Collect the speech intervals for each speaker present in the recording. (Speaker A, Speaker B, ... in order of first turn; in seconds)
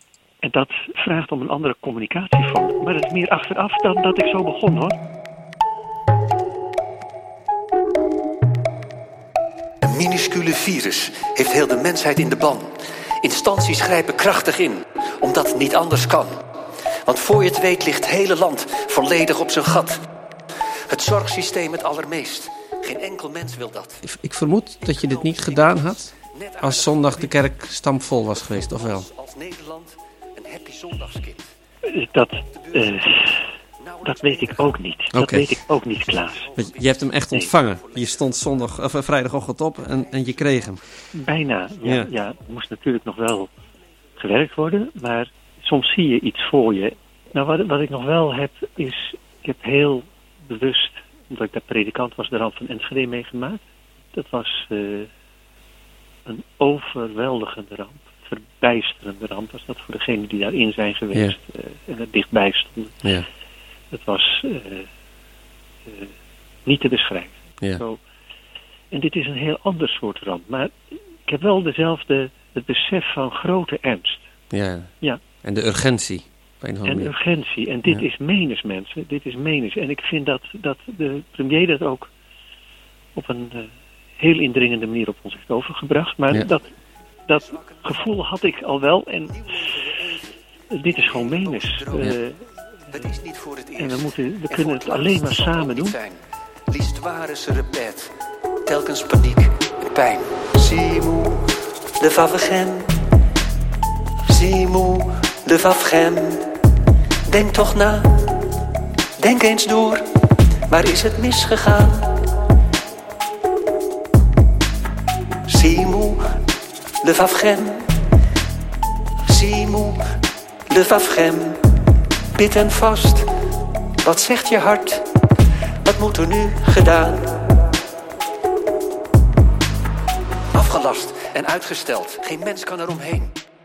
Speaker A: 0.4-5.0, 31.9-33.4, 34.0-36.5, 41.1-43.5, 44.2-53.6, 54.1-55.1, 56.3-63.0, 63.9-64.9, 65.9-66.1, 66.7-68.0, 68.9-70.8, 71.3-74.2, 76.9-82.1, 83.2-86.7, 87.3-89.4, 90.7-93.0, 93.8-96.0
Speaker B: 9.8-16.4, 17.1-20.0, 20.9-24.0, 24.8-27.4, 28.3-31.5, 32.5-34.7, 36.3-38.3, 87.5-88.2, 89.3-90.3, 90.8-92.2, 92.9-98.1, 98.7-103.0, 104.3-106.5, 107.3-108.4, 109.2-110.0, 110.7-112.3, 115.5-116.2, 117.0-118.0, 119.3-120.0, 120.7-121.6, 122.4-123.3, 124.0-125.1, 125.8-127.6, 130.5-133.4
Speaker C: 24.0-29.1, 35.1-35.5, 36.5-40.8, 41.9-42.1, 74.5-77.1